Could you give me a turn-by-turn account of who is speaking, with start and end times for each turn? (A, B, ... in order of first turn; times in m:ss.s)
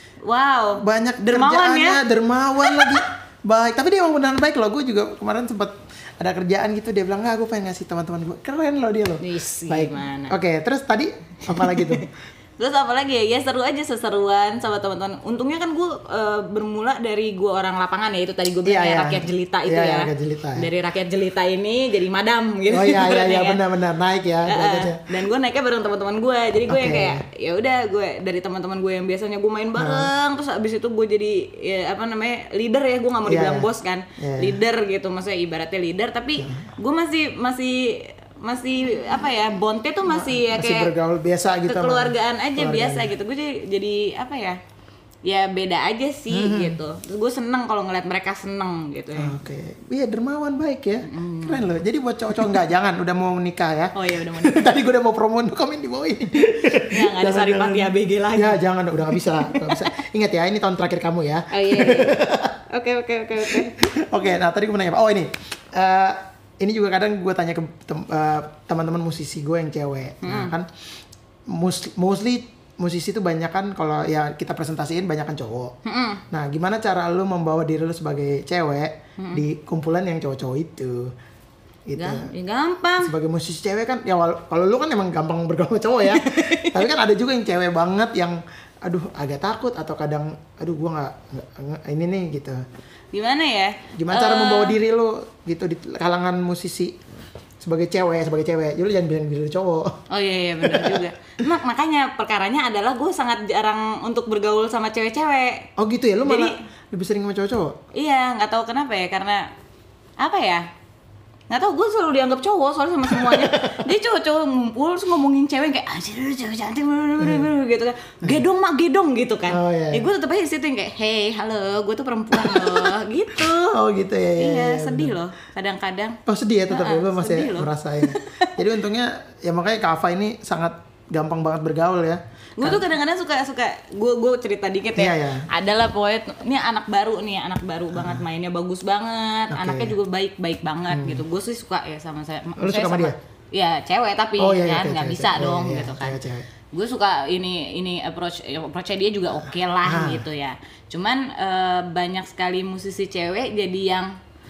0:00.2-0:02.0 A
0:00.8-0:12.1 B
0:02.6-0:03.0 A
0:09.2-0:10.4 A
0:11.5-0:12.1 A
0:12.6-0:23.6 A
0:18.6-0:20.7 B
0:22.7-0:25.0 B
0:24.5-0:40.9 A
0:26.7-0:27.2 B
0:29.8-0:30.1 B
0:33.3-0:34.6 B
0:36.4-0:36.7 B
0:40.1-0:43.1 B
0:41.7-0:44.6 A
0:45.2-0:49.3 A
0:46.3-0:46.8 B
0:49.2-1:02.6 B
0:51.0-0:51.7 A
0:54.0-0:54.7 A
0:56.8-0:59.9 A
1:01.5-1:03.8 A
1:03.4-1:10.7 B
1:10.2-1:10.5 A
1:11.5-1:15.8 B
1:15.8-1:16.2 A
1:16.3-1:21.1 B
1:19.2-1:19.4 A
1:21.9-1:22.3 B
1:22.0-1:23.1 A
1:23.0-1:32.6 B
1:26.0-1:26.8 A
1:33.1-1:34.8 A
1:33.9-1:37.0 B
1:37.6-1:40.0 B
1:40.1-1:45.7 A
1:40.6-1:41.1 B
1:45.8-1:47.8 B
1:46.2-1:46.6 A
1:47.9-1:49.5 A
1:50.2-1:50.7 A
1:51.5-2:03.8 A
1:53.1-1:53.9 B
1:57.2-1:57.5 B
1:59.5-2:00.1 B
2:02.3-2:05.2 B
2:04.4-2:08.6 A
2:06.3-2:12.9 B
2:12.6-2:26.2 A
2:15.0-2:15.5 B
2:17.9-2:18.2 B
2:19.5-2:20.0 B
2:20.9-2:21.2 B
2:22.6-2:23.2 B
2:24.4-2:26.5 B
2:26.7-2:34.2 A
2:29.8-2:30.2 B